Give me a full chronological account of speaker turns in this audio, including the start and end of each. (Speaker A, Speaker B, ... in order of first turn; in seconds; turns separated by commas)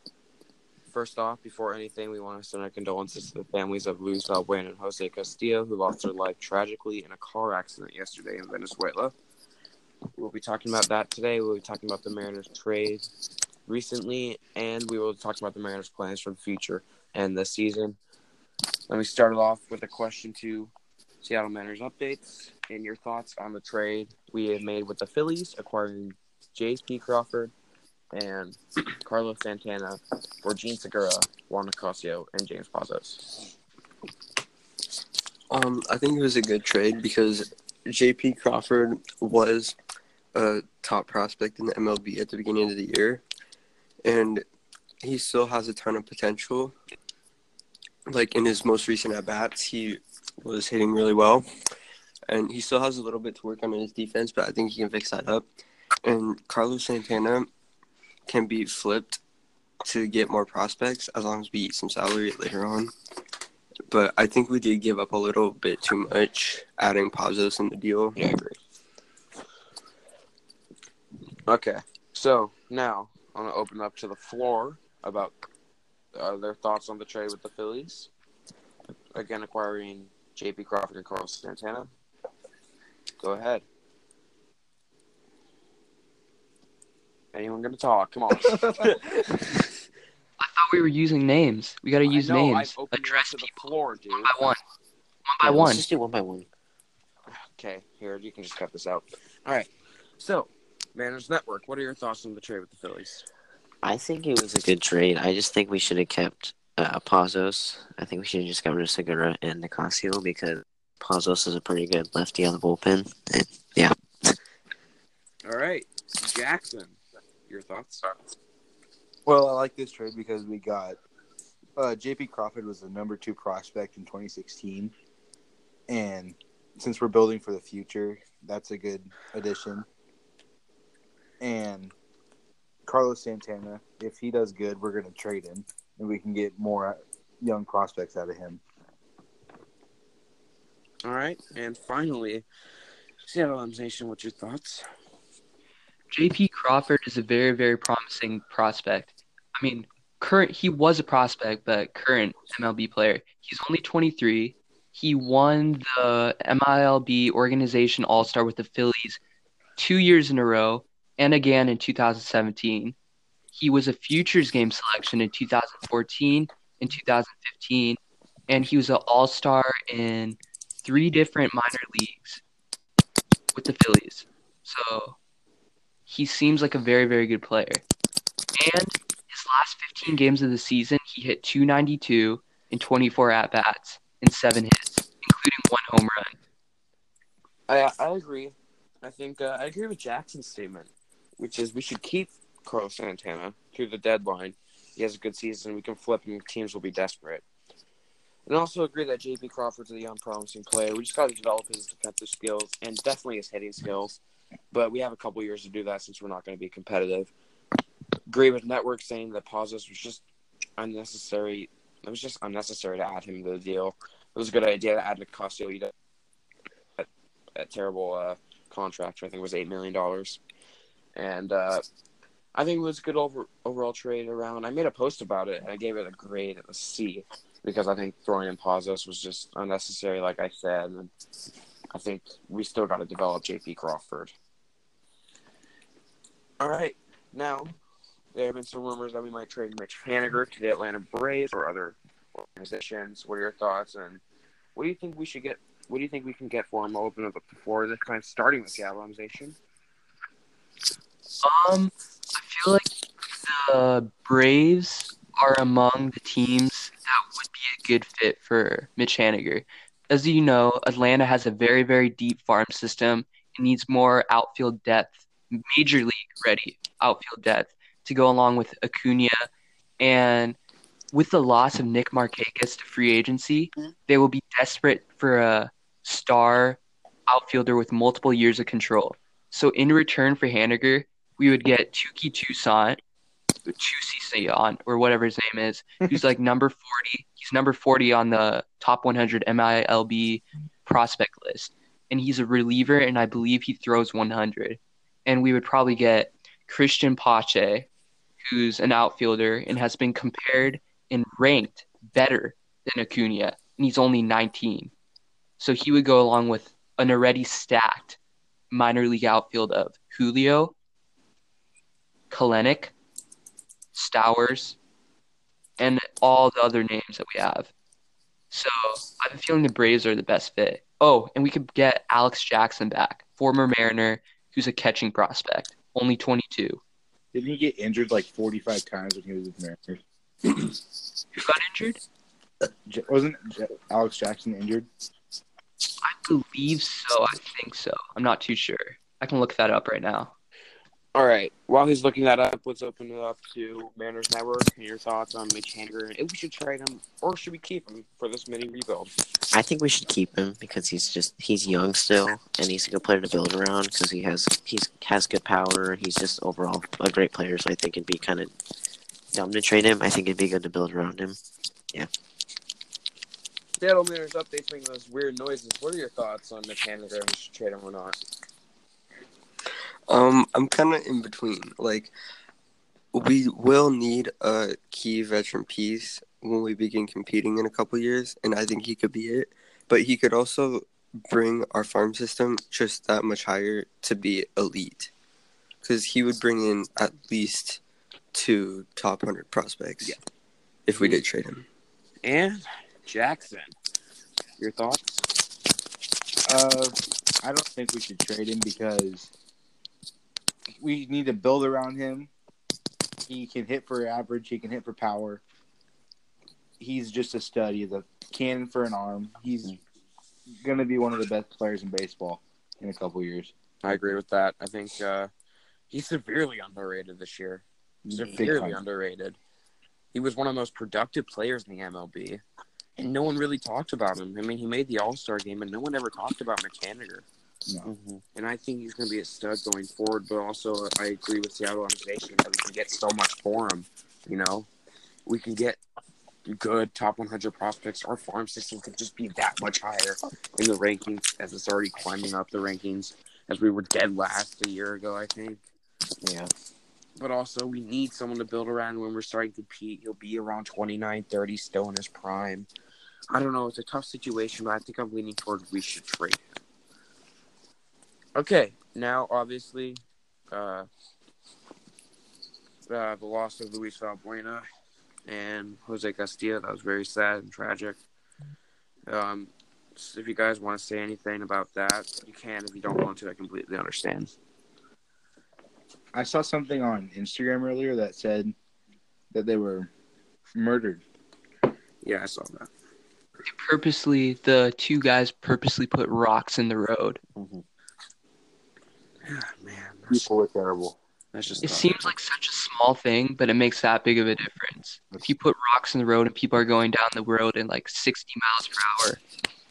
Speaker A: 0.9-9.1, Speaker A: 10.2-13.1, Speaker A: 13.7-18.0, Speaker A: 18.9-20.7, Speaker A: 21.2-27.5, Speaker A: 28.1-33.2, Speaker B: 35.5-39.8, Speaker B: 40.3-43.2, Speaker B: 44.0-44.4, Speaker B: 45.0-46.8, Speaker B: 48.1-51.4, Speaker B: 52.3-55.5, Speaker B: 56.0-57.5, Speaker B: 58.3-59.2, Speaker B: 59.8-62.9, Speaker B: 63.9-68.2, Speaker A: 68.2-68.6, Speaker A: 71.5-75.3, Speaker A: 76.1-78.1, Speaker A: 79.1-81.9, Speaker A: 83.2-83.6, Speaker A: 87.3-89.1, Speaker C: 90.4-94.6, Speaker A: 92.0-94.5, Speaker C: 95.3-95.8, Speaker D: 95.4-96.5, Speaker A: 97.3-103.2, Speaker D: 103.8-114.3, Speaker A: 115.4-118.2, Speaker E: 119.2-121.0, Speaker E: 121.8-124.9, Speaker E: 125.9-129.9, Speaker E: 131.4-131.9, Speaker E: 132.9-138.6, Speaker A: 141.0-142.4, Speaker A: 143.2-144.8, Speaker C: 146.1-159.2, Speaker C: 159.8-162.9, Speaker C: 163.5-172.4, Speaker C: 173.5-175.2, Speaker C: 176.1-177.8, Speaker C: 178.6-186.3, Speaker A: 187.7-197.4, Speaker A: 198.4-204.2, Speaker A: 204.7-207.3, Speaker A: 208.3-210.2, Speaker A: 210.8-215.9, Speaker A: 217.0-220.4, Speaker A: 221.2-221.8, Speaker A: 222.5-231.1, Speaker A: 231.9-234.3, Speaker A: 236.6-237.7, Speaker A: 238.3-244.2, Speaker A: 244.8-249.6, Speaker C: 251.4-252.9, Speaker C: 253.4-269.5, Speaker C: 270.0-270.6, Speaker C: 271.1-283.0, Speaker C: 283.6-297.9, Speaker C: 298.4-304.9, Speaker C: 305.6-308.2, Speaker C: 308.7-310.8, Speaker C: 312.3-312.9, Speaker C: 313.9-314.8, Speaker C: 315.8-317.7, Speaker C: 318.5-326.8, Speaker E: 327.3-330.0, Speaker C: 331.3-332.0, Speaker E: 332.9-334.9, Speaker C: 336.0-340.3, Speaker A: 341.1-349.1, Speaker D: 349.5-358.5, Speaker D: 359.3-361.4, Speaker A: 363.8-368.2, Speaker B: 370.1-372.1, Speaker B: 373.1-385.1, Speaker B: 385.8-387.8, Speaker B: 388.3-390.2, Speaker B: 390.9-391.6, Speaker A: 391.0-391.2, Speaker A: 392.2-393.7, Speaker A: 394.6-395.3, Speaker E: 396.5-399.3, Speaker E: 400.8-402.3, Speaker E: 403.3-405.4, Speaker E: 406.8-409.7, Speaker E: 410.6-413.5, Speaker A: 413.8-415.3, Speaker A: 415.9-419.4, Speaker E: 418.1-418.8, Speaker A: 420.1-422.4, Speaker A: 423.0-427.2, Speaker D: 427.8-428.2, Speaker A: 428.4-434.7, Speaker A: 435.3-435.8, Speaker A: 436.4-445.6, Speaker D: 446.2-446.5, Speaker A: 447.2-452.7, Speaker A: 453.3-456.4, Speaker A: 458.4-460.9, Speaker A: 462.9-464.7, Speaker A: 465.3-468.0, Speaker A: 469.1-474.3, Speaker E: 476.1-478.6, Speaker E: 479.3-479.9, Speaker E: 480.6-481.0, Speaker A: 482.0-482.7, Speaker C: 483.5-487.2, Speaker D: 487.4-487.6, Speaker A: 489.2-490.3, Speaker E: 490.1-491.0, Speaker A: 491.3-492.1, Speaker C: 491.6-499.2